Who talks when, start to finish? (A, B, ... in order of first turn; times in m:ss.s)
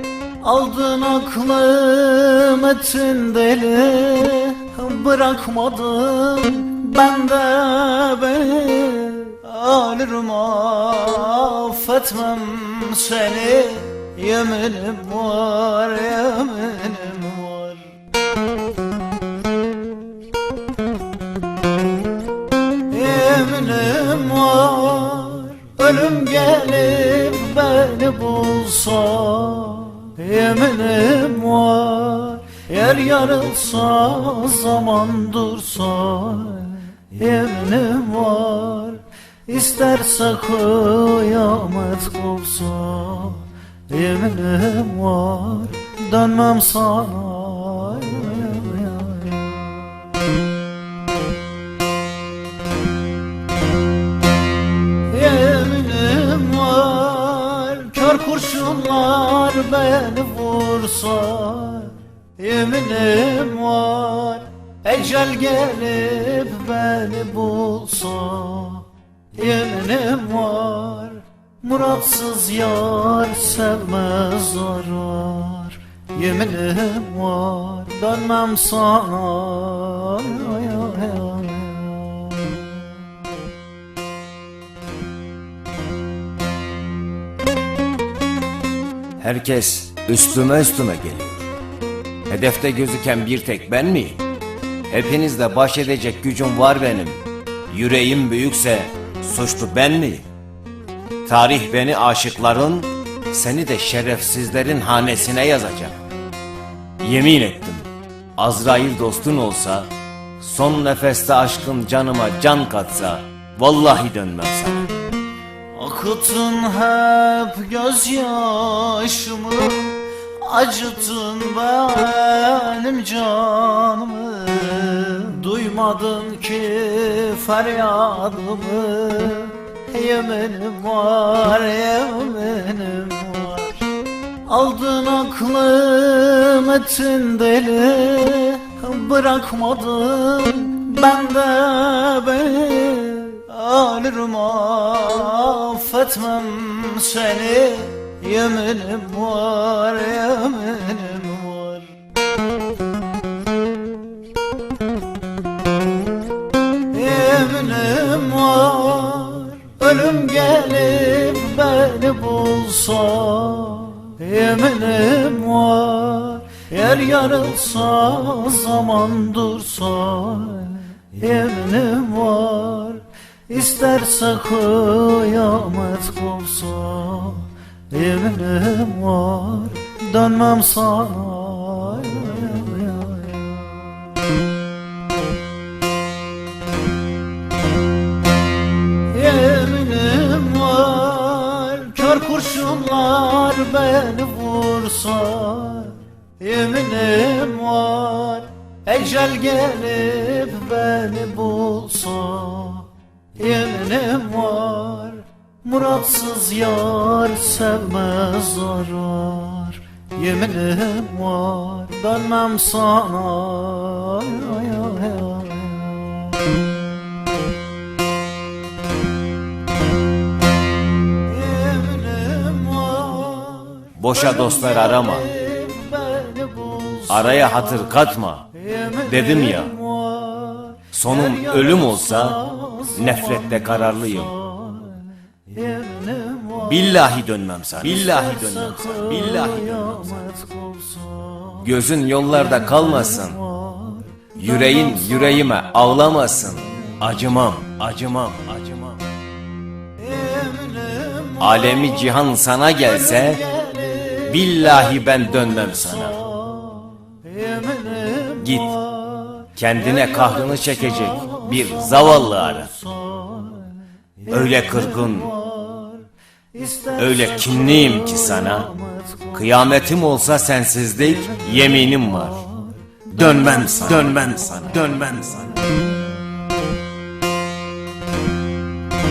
0:00.4-0:17.9 A
0:22.9-0:50.0 A
0:55.1-1:22.8 A
1:29.2-1:31.5 B
1:32.3-1:34.2 B
1:34.9-1:40.3 B
1:41.2-1:46.0 B
1:47.0-1:49.9 B
1:50.4-1:54.9 B
1:55.7-2:13.9 A
2:14.4-2:31.9 A
2:36.9-3:04.0 A
3:09.1-3:36.6 A
3:41.2-3:48.0 A
3:44.0-3:45.3 B
3:47.1-3:48.4 B
3:48.5-3:57.2 A
3:49.0-3:49.7 B
3:50.9-3:52.4 B
3:52.9-3:54.3 B
3:56.6-4:00.2 B
3:57.8-4:01.7 A
4:01.6-4:03.4 B
4:02.3-4:05.5 A
4:04.4-4:09.0 B
4:06.5-4:06.9 A
4:10.0-4:29.7 A
4:11.4-4:13.4 B
4:14.3-4:16.2 B
4:18.4-4:18.7 B
4:19.6-4:22.7 B
4:24.3-4:25.3 B
4:27.0-4:28.7 B
4:29.3-4:32.4 B
4:31.0-4:34.9 A
4:33.1-4:35.6 B